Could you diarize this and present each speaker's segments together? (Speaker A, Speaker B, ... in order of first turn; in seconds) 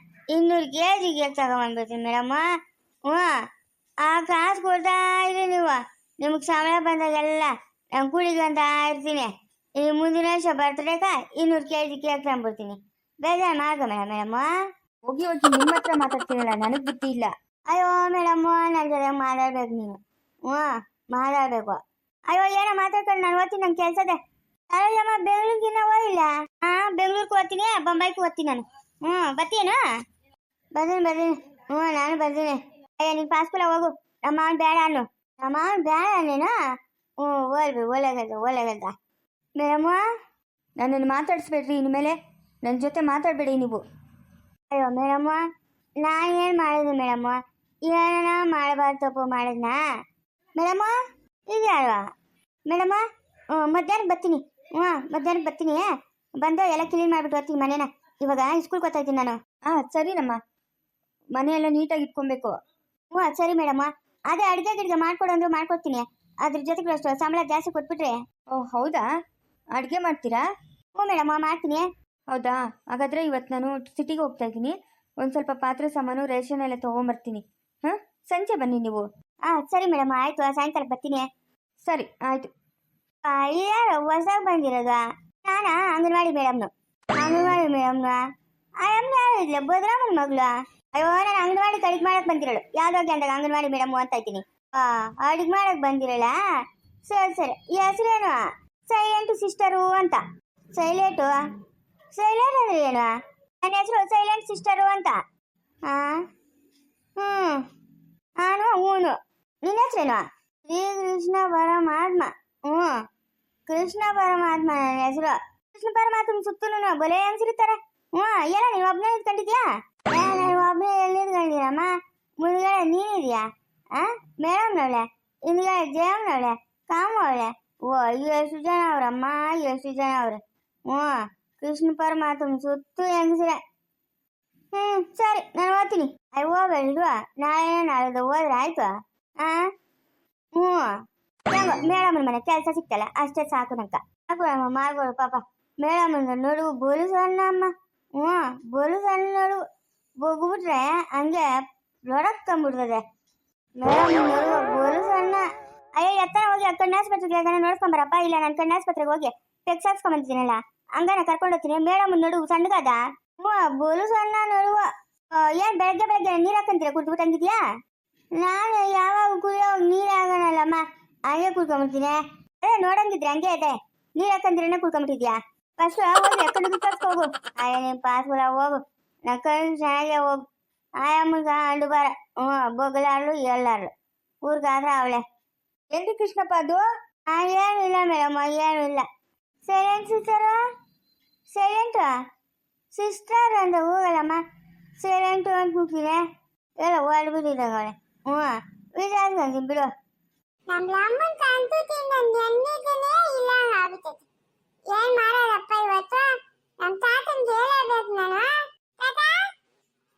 Speaker A: 0.3-2.5, 3.1-3.4, 4.0-14.5, 17.7-24.2, 24.7-29.8, 30.8-36.5, 37.2-38.9, 39.6-40.0, 44.7-45.4, 46.0-47.4, 47.9-49.8, 50.6-50.9, 51.5-52.0, 52.7-55.9, 56.4-59.4, 63.1-68.2, 71.0-71.9, 79.5-81.2, 83.2-88.2, 88.8-96.3, 97.1-100.2, 100.8-101.4, 102.1-105.2, 105.9-106.2, 107.2-107.6, 108.4-113.0, 113.7-133.6, 134.7-139.7, 140.6-140.9, 141.5-149.6, 150.2-151.5, 152.1-153.0, 153.8-167.6, 168.4-180.4, 181.0-183.9, 184.4-185.2, 187.3-189.0, 189.6-190.6, 191.5-192.1, 192.9-194.4, 195.0-196.2, 196.8-199.9
Speaker B: 15.1-17.3, 40.8-43.8, 59.7-60.4, 61.3-62.5, 68.6-69.0, 69.8-70.4, 72.3-79.0, 81.8-82.5, 185.9-186.8
Speaker C: 200.7-204.2, 204.9-209.5